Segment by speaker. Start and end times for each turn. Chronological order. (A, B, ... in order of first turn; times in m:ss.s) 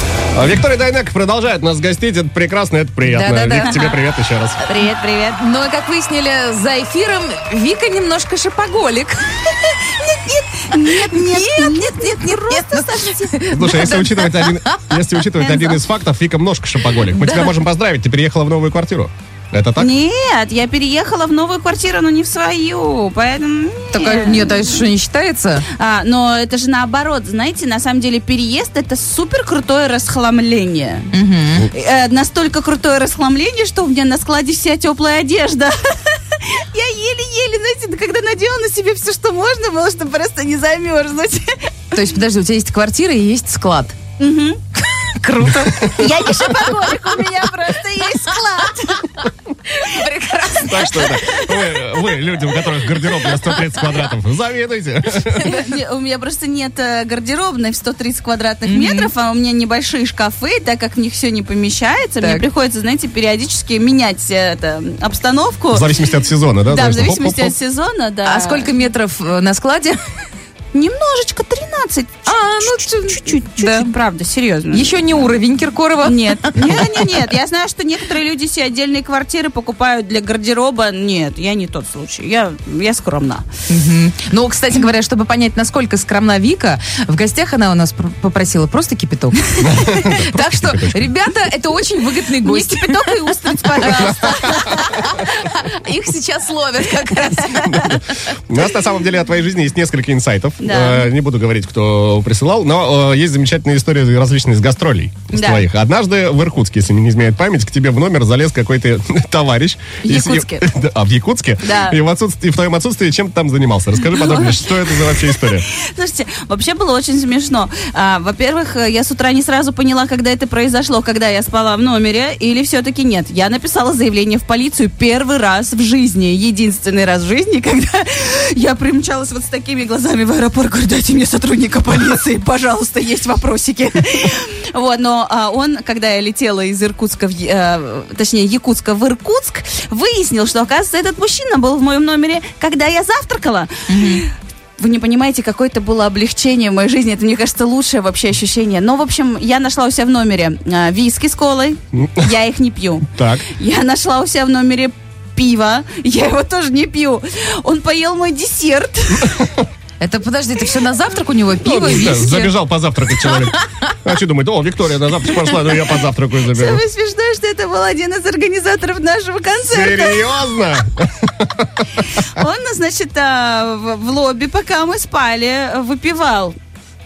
0:00.3-0:04.6 A
0:03.0-0:03.8 B
0:03.6-0:04.0 C
0:04.7-0:05.4 C
0:05.4-0:10.0 B
0:10.1-0:13.4 C
0:10.8-0:15.8 B
0:13.5-0:19.9 A
0:17.0-0:17.6 B
0:19.8-0:24.9 C
0:23.9-0:25.6 B
0:25.8-0:31.1 C
0:31.1-0:31.7 B
0:31.7-0:41.6 C
0:41.9-0:44.0 B
0:44.2-0:44.6 C
0:44.8-0:46.7 B
0:45.9-0:49.3 C
0:49.7-0:51.7 B
0:50.6-0:55.5 A
0:52.6-0:54.1 B
0:55.4-1:06.0 C
0:58.6-0:59.1 B
1:05.7-1:07.5 A
1:06.7-1:08.7 C
1:08.2-1:10.0 B
1:10.7-1:15.0 C
1:12.3-1:13.9 B
1:14.7-1:17.0 B
1:16.0-1:23.4 C
1:23.7-1:38.2 B
1:29.6-1:31.1 A
1:32.3-1:35.1 C
1:37.6-1:55.7 A
1:40.6-1:41.1 C
1:45.3-1:45.6 C
1:50.0-1:50.7 C
1:51.6-1:52.0 C
1:54.1-2:39.4 C
2:23.9-2:24.2 B
2:33.1-2:33.5 A
2:40.0-2:42.5 B
2:41.6-2:46.8 A
2:43.2-2:43.6 B
2:46.5-2:50.3 C
2:49.7-2:51.8 A
2:52.0-2:56.5 C